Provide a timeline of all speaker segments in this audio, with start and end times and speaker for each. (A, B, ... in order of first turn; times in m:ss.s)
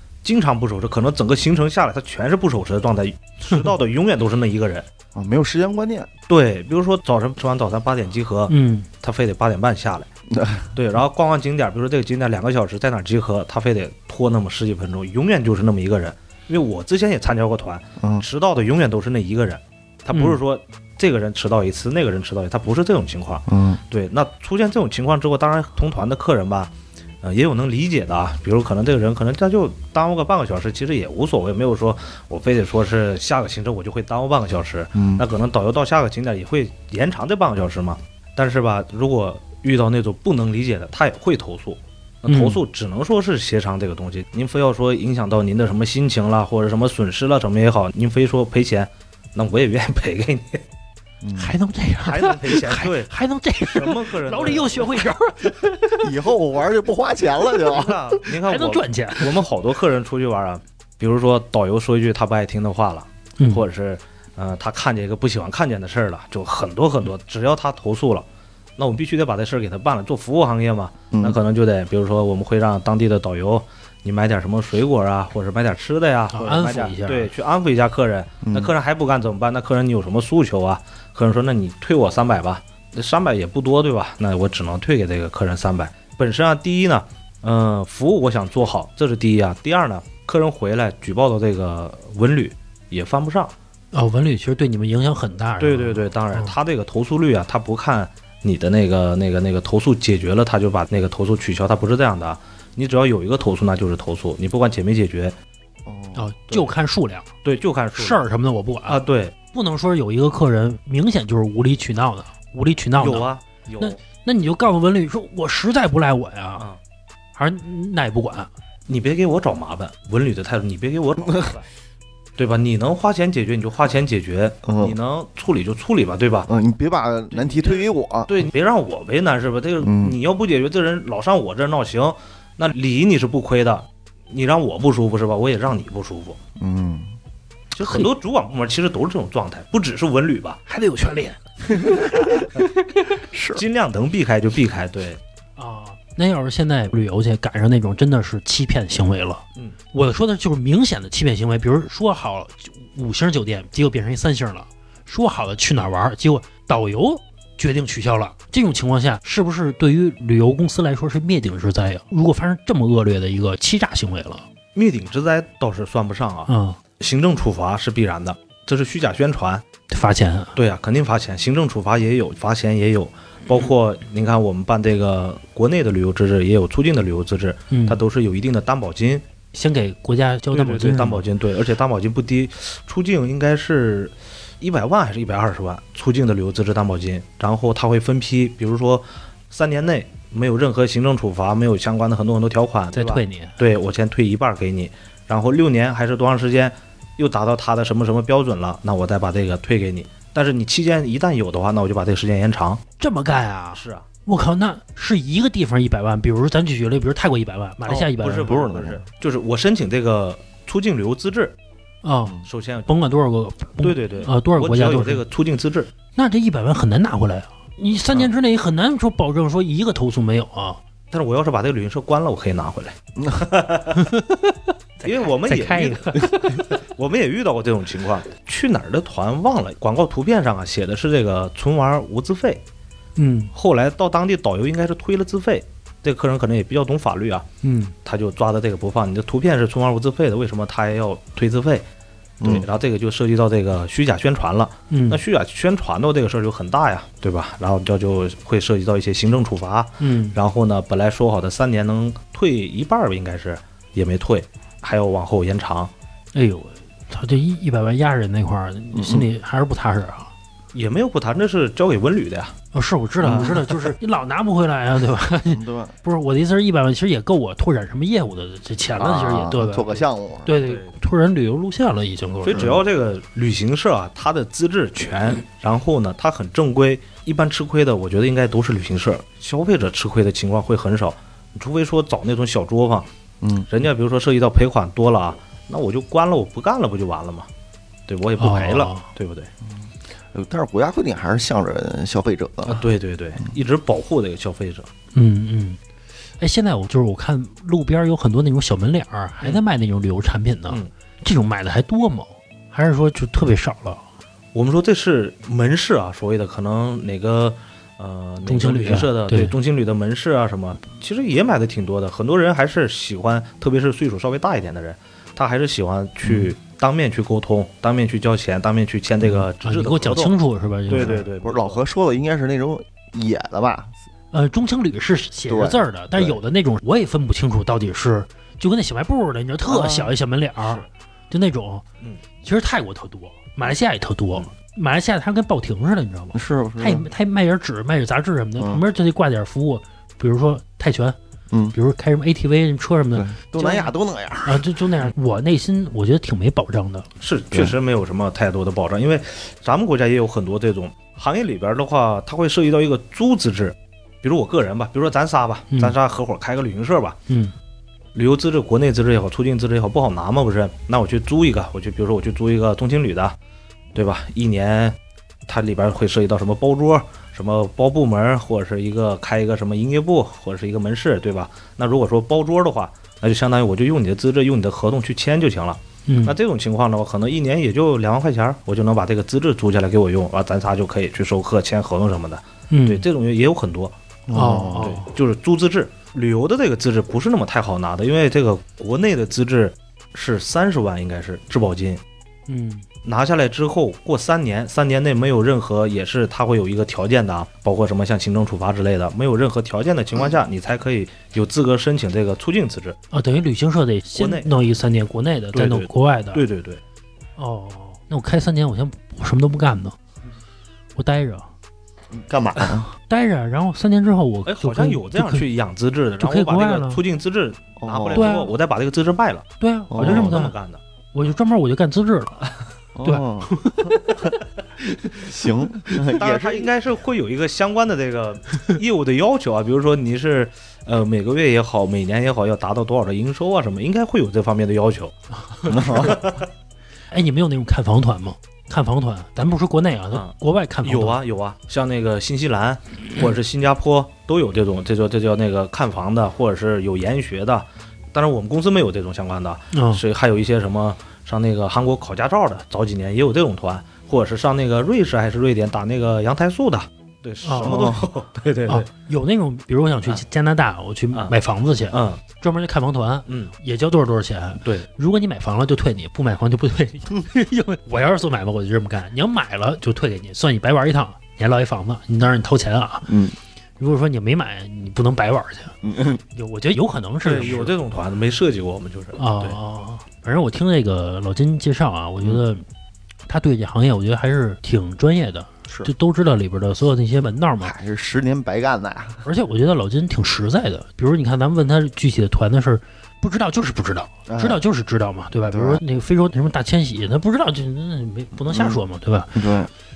0:00.2-0:04.8 A
0:05.1-0:06.1 B
0:06.3-0:10.1 A
0:08.5-0:08.9 C
0:10.3-0:10.7 B
0:10.7-0:50.6 A
0:18.0-0:18.2 B
0:20.1-0:20.4 C
0:23.5-0:23.8 B
0:34.9-0:35.2 B
0:42.3-0:42.6 C
0:51.2-0:51.5 B
0:51.4-0:56.1 C
0:52.0-0:53.1 A
0:53.6-0:55.0 A
0:56.0-0:58.0 B
0:57.6-1:08.2 A
0:58.2-0:59.4 C
1:03.4-1:03.6 C
1:08.8-1:33.5 A
1:11.1-1:11.4 B
1:16.3-1:17.3 C
1:18.4-1:18.7 B
1:33.9-1:36.5 C
1:35.6-1:45.4 A
1:45.8-1:46.3 B
1:46.1-1:47.3 C
1:47.4-1:48.2 A
1:48.0-1:53.3 C
1:48.9-1:49.3 A
1:53.0-1:54.0 A
1:53.8-1:56.6 C
1:57.4-1:58.5 C
1:58.9-2:01.7 A
2:02.4-2:06.5 A
2:04.6-2:05.0 B
2:06.5-2:08.3 B
2:07.4-2:16.4 A
2:09.8-2:10.2 B
2:16.6-2:17.2 B
2:17.7-2:20.6 A
2:17.8-2:18.1 C
2:20.7-2:22.7 C
2:23.3-2:23.6 B
2:23.5-2:25.2 A
2:25.6-2:44.4 C
2:44.7-2:49.6 A
2:46.5-2:46.8 C
2:49.9-2:50.5 C
2:50.6-2:59.2 A
2:57.7-2:58.0 C
2:59.5-3:01.2 C
3:00.5-3:22.8 A
3:12.9-3:13.6 C
3:23.0-3:28.5 C
3:23.7-3:24.0 A
3:27.9-3:31.6 A
3:28.4-3:29.0 B
3:32.0-3:35.2 C
3:32.4-3:32.9 A
3:33.8-3:35.9 A
3:36.1-3:40.8 C
3:41.1-3:44.0 A
3:43.2-3:43.5 B
3:43.9-3:46.7 C
3:45.0-3:52.6 A
3:53.2-3:53.5 C
3:53.5-3:57.4 A
3:57.6-3:57.9 C
3:58.0-4:01.8 A
4:02.4-4:02.6 B
4:02.4-4:15.9 A
4:04.9-4:05.2 C
4:10.0-4:10.4 C
4:16.3-4:20.3 C
4:18.9-4:19.2 B
4:20.7-4:22.5 A
4:22.7-4:32.7 C
4:23.2-4:23.6 A
4:23.2-4:23.5 B
4:25.5-4:25.9 B
4:29.0-4:30.6 B
4:30.6-4:30.9 A
4:32.4-4:43.1 A
4:43.7-4:47.5 A
4:48.1-4:49.5 A
4:48.4-4:49.0 C
4:49.7-4:52.8 B
4:52.6-4:54.9 A
4:55.1-4:55.8 C
4:56.4-5:04.0 C
5:04.5-5:20.3 A
5:08.4-5:09.6 C
5:19.6-5:21.3 C
5:20.9-5:21.8 A
5:21.0-5:23.9 B
5:24.3-5:31.8 C
5:25.5-5:26.4 B
5:29.6-5:30.1 B
5:30.6-5:30.9 A
5:32.4-5:41.2 C
5:36.3-5:37.0 B
5:41.5-5:41.8 B
5:41.7-5:43.9 C
5:43.1-5:44.8 B
5:44.4-5:47.1 C
5:47.2-5:57.2 A
5:55.7-5:56.0 C
5:57.3-5:57.5 C
5:58.1-6:03.4 A
6:03.9-6:05.0 A
6:05.5-6:23.9 A
6:16.1-6:16.4 C
6:22.7-6:23.0 C
6:24.3-6:24.9 B
6:24.3-6:25.1 C
6:24.8-6:32.0 A
6:32.5-6:32.8 C
6:33.0-6:43.0 A
6:43.1-6:46.4 C
6:44.2-6:44.5 A
6:45.5-6:46.8 A
6:47.4-6:50.0 C
6:51.0-6:51.5 C
6:52.1-6:52.9 B
6:53.1-6:55.4 C
6:54.4-7:00.8 A
6:56.2-6:57.0 C
6:57.8-6:58.4 B
6:58.1-6:58.5 C
6:59.6-7:00.6 C
6:59.9-7:00.4 B
7:01.1-7:02.5 C
7:02.9-7:04.0 B
7:03.0-7:04.0 C
7:05.2-7:06.7 B
7:05.9-7:16.5 A
7:15.7-7:16.3 B
7:17.1-7:21.2 C
7:20.1-7:38.9 A
7:29.7-7:30.0 C
7:37.4-7:37.8 C
7:37.6-7:38.0 B
7:38.7-7:53.2 C
7:41.9-7:42.2 A
7:43.3-7:43.5 A
7:53.1-7:53.4 B
7:53.8-7:55.8 C
7:55.8-7:56.2 B
7:56.3-7:57.7 C
7:57.2-7:59.6 A
7:59.2-8:02.6 C
8:03.2-8:07.7 C
8:07.6-8:09.2 B
8:09.2-8:19.4 C
8:14.3-8:14.6 B
8:15.5-8:15.8 B
8:18.5-8:18.8 B
8:19.3-8:19.7 B